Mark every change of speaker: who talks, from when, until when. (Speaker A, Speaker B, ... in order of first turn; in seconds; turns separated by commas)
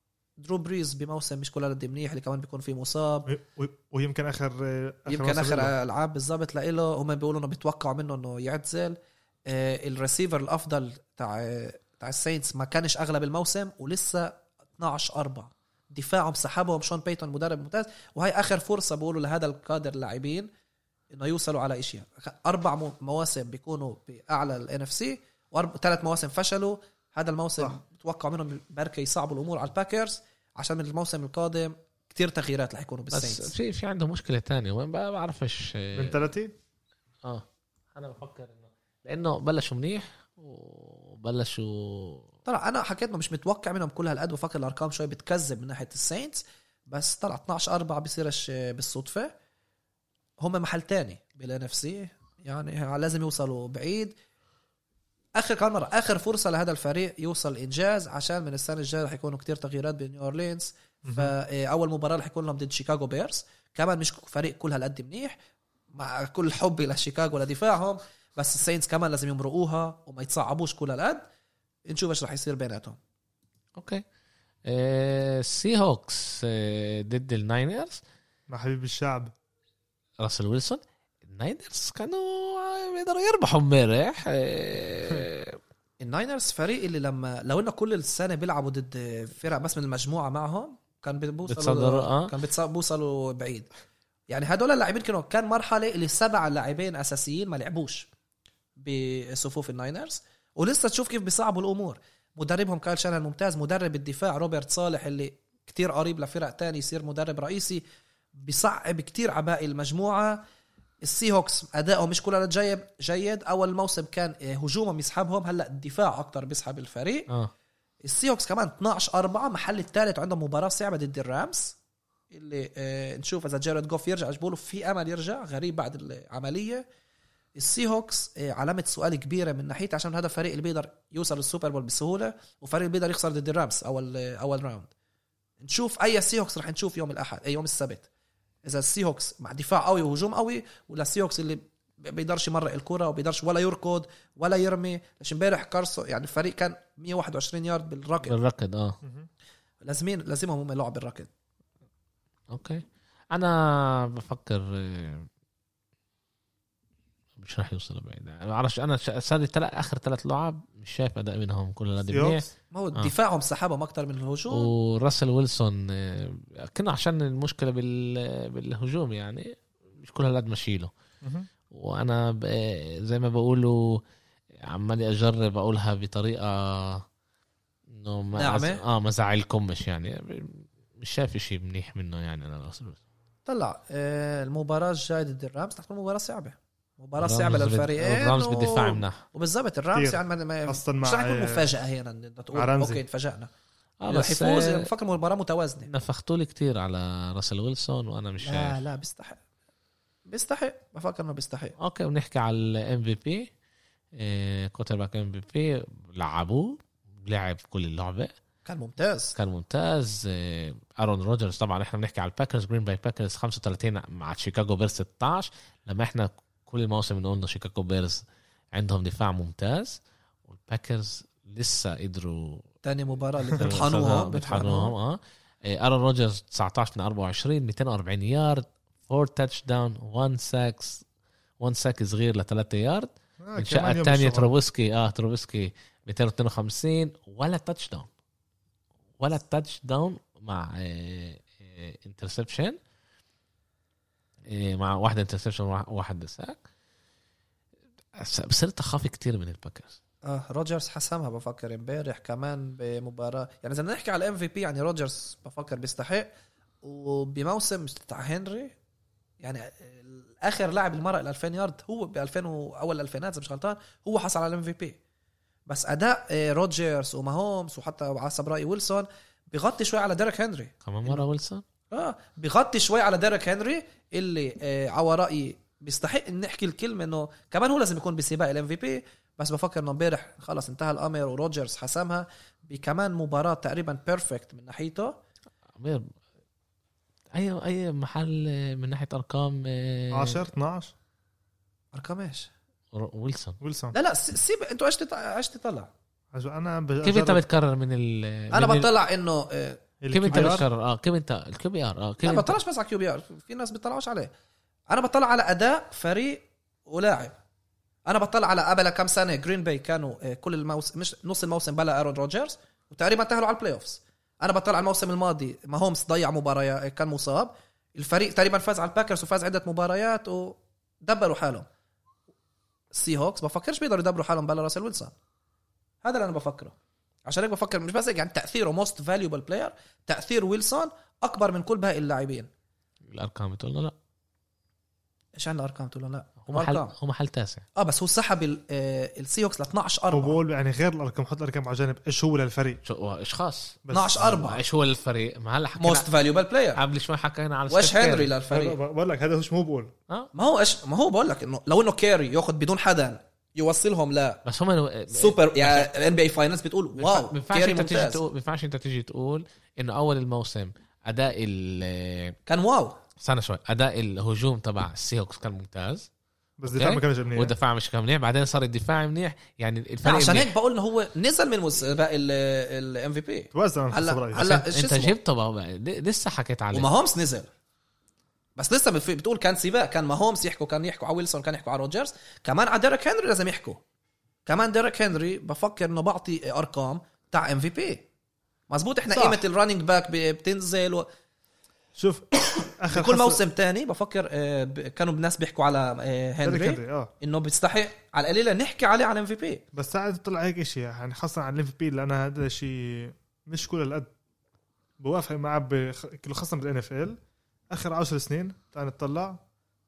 Speaker A: 0.4-3.3, Speaker B: 3.3-5.7, Speaker A: 5.1-20.5, Speaker A: 21.1-33.5, Speaker C: 33.1-36.3, Speaker B: 36.0-36.5, Speaker C: 37.2-42.3, Speaker A: 42.5-49.3, Speaker A: 50.4-54.1, Speaker A: 55.4-65.4, Speaker B: 61.0-61.3, Speaker A: 65.9-71.2, Speaker A: 71.9-73.0, Speaker C: 73.8-74.0, Speaker C: 74.7-78.0, Speaker B: 78.5-79.3, Speaker C: 80.2-85.6, Speaker A: 86.0-93.7, Speaker C: 91.5-92.3, Speaker A: 94.3-98.1, Speaker A: 98.8-107.8, Speaker A: 108.4-110.4, Speaker A: 111.0-117.3, Speaker A: 118.0-121.8, Speaker A: 122.3-126.8, Speaker A: 127.6-134.9, Speaker A: 135.6-138.1, Speaker A: 138.7-148.3, Speaker C: 148.2-149.0, Speaker B: 149.0-149.3, Speaker A: 149.8-151.3, Speaker C: 152.5-155.3, Speaker C: 157.4-163.1, Speaker B: 162.1-162.5, Speaker A: 162.7-164.7, Speaker C: 164.5-170.9, Speaker B: 171.2-171.5, Speaker C: 171.7-174.0, Speaker C: 174.6-177.1, Speaker C: 177.9-183.0, Speaker A: 178.3-178.8, Speaker A: 183.5-193.5, Speaker C: 187.2-189.2, Speaker B: 189.9-191.7, Speaker B: 192.5-193.0, Speaker C: 194.0-194.9, Speaker A: 194.1-195.9, Speaker C: 195.9-198.8, Speaker A: 198.4-199.4, Speaker A: 200.3-201.8, Speaker C: 201.8-203.5, Speaker C: 204.2-208.3, Speaker A: 208.7-209.3, Speaker C: 209.3-222.7, Speaker A: 222.8-224.9, Speaker C: 223.6-231.0, Speaker C: 231.6-238.1, Speaker B: 233.4-234.5, Speaker C: 239.2-242.8, Speaker C: 244.5-246.6, Speaker C: 248.2-250.0, Speaker A: 250.2-256.3, Speaker A: 256.8-258.7, Speaker A: 259.4-265.0, Speaker A: 265.7-271.2, Speaker C: 270.8-271.6, Speaker A: 271.9-285.1, Speaker C: 285.8-286.1, Speaker C: 287.3-290.4, Speaker B: 290.1-290.9, Speaker A: 291.9-292.5, Speaker C: 292.9-293.6, Speaker B: 293.6-293.9, Speaker A: 293.9-295.9, Speaker B: 296.3-297.4, Speaker C: 297.0-298.9, Speaker A: 298.5-300.6, Speaker B: 300.0-300.7, Speaker C: 300.1-302.6, Speaker A: 302.2-304.3, Speaker A: 304.9-307.4, Speaker A: 308.1-321.7, Speaker A: 322.9-325.1, Speaker A: 326.0-326.8, Speaker A: 327.3-332.5, Speaker C: 333.1-333.9, Speaker A: 335.4-336.9, Speaker C: 336.5-337.7, Speaker A: 337.8-340.4, Speaker B: 340.1-342.8, Speaker C: 342.9-346.1, Speaker B: 343.9-344.4, Speaker A: 343.9-344.6, Speaker A: 345.8-346.8, Speaker C: 346.8-348.3, Speaker A: 347.7-348.8, Speaker B: 348.5-349.9, Speaker A: 350.3-354.4, Speaker C: 354.4-355.9, Speaker A: 355.1-358.2, Speaker C: 357.0-362.4, Speaker A: 362.5-363.0, Speaker C: 363.2-366.1, Speaker B: 366.6-367.6, Speaker C: 366.7-370.5, Speaker A: 370.0-375.1, Speaker B: 373.5-374.5, Speaker C: 374.4-376.9, Speaker A: 376.7-377.5, Speaker A: 378.6-383.8, Speaker A: 384.5-388.1, Speaker A: 388.7-391.1, Speaker B: 389.1-389.4, Speaker B: 392.0-393.4, Speaker A: 392.9-399.6, Speaker B: 396.4-397.1, Speaker B: 399.7-404.1, Speaker B: 405.0-407.2, Speaker B: 407.7-409.4